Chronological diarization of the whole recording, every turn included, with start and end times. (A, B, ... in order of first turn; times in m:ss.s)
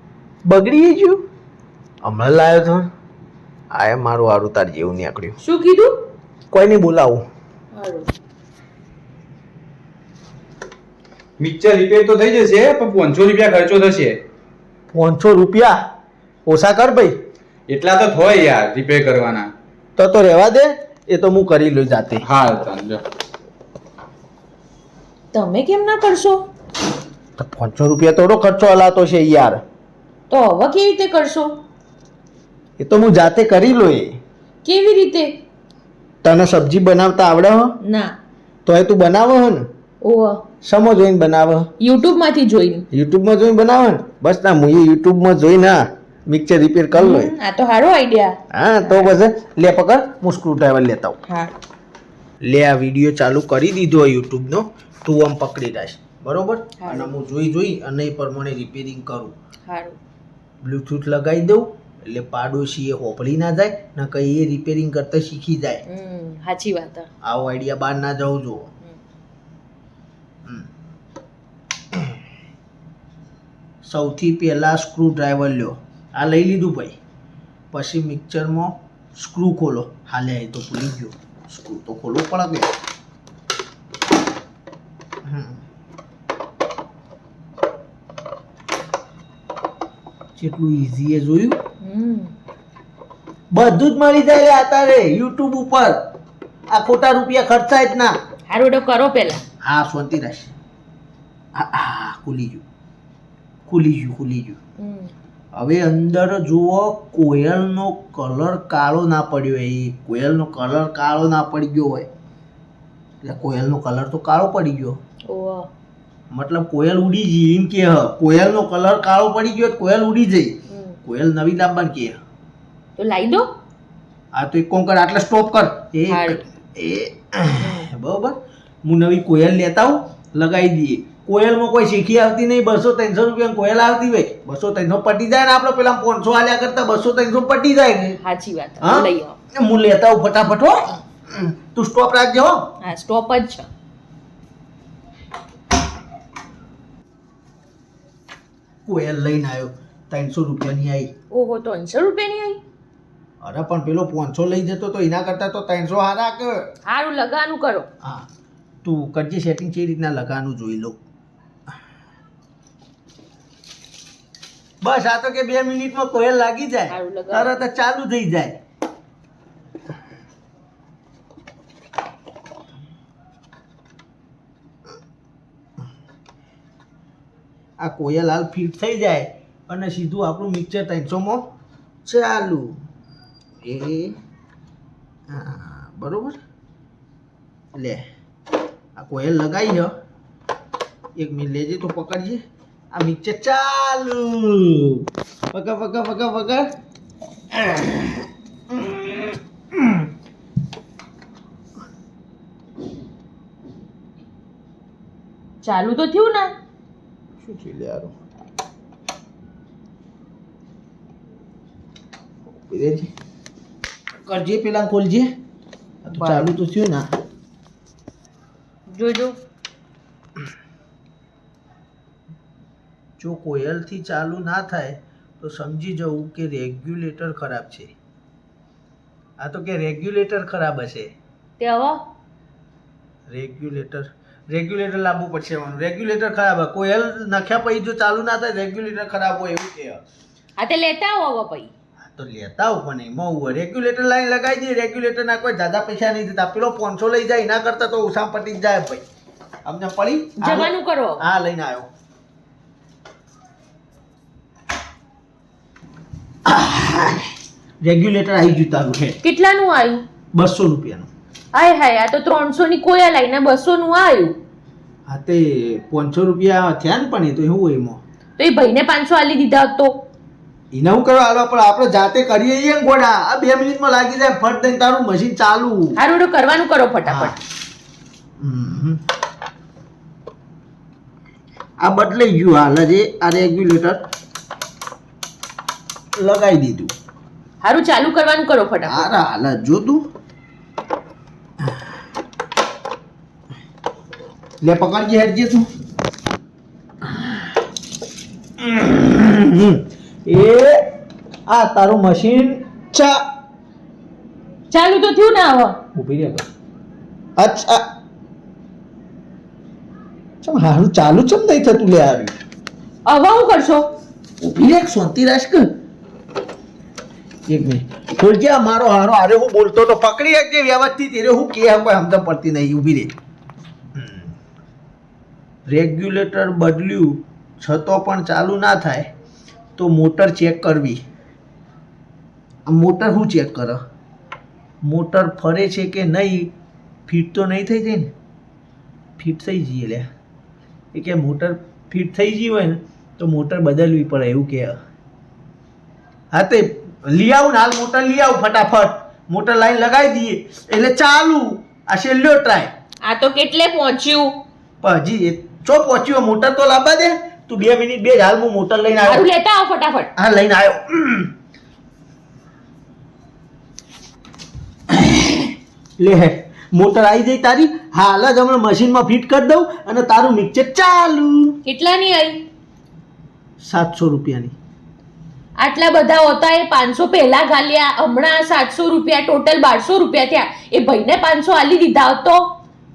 0:00.4-0:01.2 A
0:02.0-0:02.9 A
0:03.7-0:05.4 A
0:05.4-0:05.9 B
0:06.5-0:07.2 A
0:07.7-0:08.1 B
0:11.4-0:14.2 C
0:14.9-0:15.8 A
0:16.4-0:17.1 A
0:17.7-0:19.5 C
0:20.0-0:22.2 A
0:22.2-0:23.0 C
0:25.3-0:26.4 B
0:27.4-0:29.6 A
0:30.3-0:31.6 B
0:32.8-0:34.2 A
0:34.6-0:35.3 B
0:36.2-0:37.8 A
0:37.8-0:38.2 B
0:38.6-0:39.6 A
0:40.0-0:40.4 B
0:40.6-0:41.7 A
0:41.8-0:42.9 B
0:42.9-0:47.3 A
0:46.9-0:48.4 B
0:48.5-0:51.2 A
0:51.3-0:51.5 B
0:52.4-0:59.3 A
0:56.8-0:57.1 B
0:59.7-1:00.0 B
1:00.6-1:05.8 A
1:05.8-1:07.1 B
1:07.2-1:08.7 A
1:13.8-1:17.0 A
1:17.7-1:22.7 A
1:25.2-1:25.6 A
1:30.4-1:31.6 A
1:31.8-1:32.3 B
1:33.5-1:36.0 A
1:36.7-1:38.1 A
1:38.5-1:39.4 B
1:39.6-1:40.5 A
1:41.5-1:42.6 A
1:43.7-1:44.6 A
1:44.8-1:45.1 B
1:45.5-1:52.1 A
1:53.2-1:55.0 A
1:55.3-1:55.7 B
1:56.3-2:02.2 A
2:00.7-2:01.0 B
2:03.0-2:03.5 B
2:04.3-2:18.2 A
2:06.1-2:06.4 B
2:07.6-2:07.9 B
2:18.2-2:19.4 B
2:18.8-2:22.7 A
2:22.8-2:23.7 B
2:28.8-2:31.1 A
2:31.3-2:32.6 B
2:33.4-2:36.7 A
2:36.9-2:37.9 B
2:38.8-2:41.0 A
2:44.8-2:48.6 A
2:46.9-2:47.5 B
2:57.8-3:01.5 A
3:02.0-3:02.8 A
3:03.6-3:04.2 A
3:05.3-3:06.4 A
3:07.7-3:08.0 A
3:09.0-3:09.9 A
3:11.2-3:12.4 A
3:12.9-3:16.7 A
3:17.5-3:20.0 A
3:25.6-3:26.5 B
3:27.4-3:28.1 A
3:32.6-3:33.1 A
3:34.2-3:35.3 A
3:36.0-3:37.1 A
3:36.1-3:36.5 B
3:38.9-3:39.4 B
3:43.2-3:47.9 A
3:49.4-3:51.1 A
3:51.6-3:52.0 B
3:53.3-4:00.0 A
4:00.6-4:01.7 B
4:02.1-4:09.0 A
4:09.6-4:11.9 A
4:10.4-4:11.2 B
4:16.4-4:17.3 A
4:17.8-4:19.2 A
4:19.2-4:20.0 B
4:20.3-4:21.1 A
4:21.5-4:24.3 B
4:25.1-4:28.0 A
4:28.4-4:29.9 B
4:30.7-4:36.0 A
4:36.0-4:37.4 B
4:37.0-4:37.4 A
4:38.4-4:39.0 A
4:41.8-4:44.0 A
4:46.2-4:46.9 A
4:47.6-4:49.1 B
4:48.9-4:50.0 A
4:54.6-4:55.6 A
4:58.6-5:00.8 A
5:01.5-5:03.2 A
5:04.7-5:05.8 B
5:05.9-5:06.4 A
5:07.4-5:07.8 A
5:10.4-5:12.3 A
5:13.0-5:13.8 B
5:14.4-5:15.7 A
5:17.5-5:23.1 A
5:24.0-5:24.3 A
5:25.7-5:29.1 A
5:29.8-5:31.0 A
5:32.7-5:33.8 A
5:34.8-5:36.5 A
5:37.1-5:38.1 A
5:39.2-5:40.1 A
5:40.9-5:44.8 A
5:46.3-5:52.7 A
5:53.0-5:54.4 B
5:54.8-5:59.2 A
5:59.1-6:00.1 B
6:00.2-6:01.3 A
6:04.9-6:11.6 A
6:11.6-6:12.4 B
6:13.6-6:14.5 A
6:15.6-6:22.4 B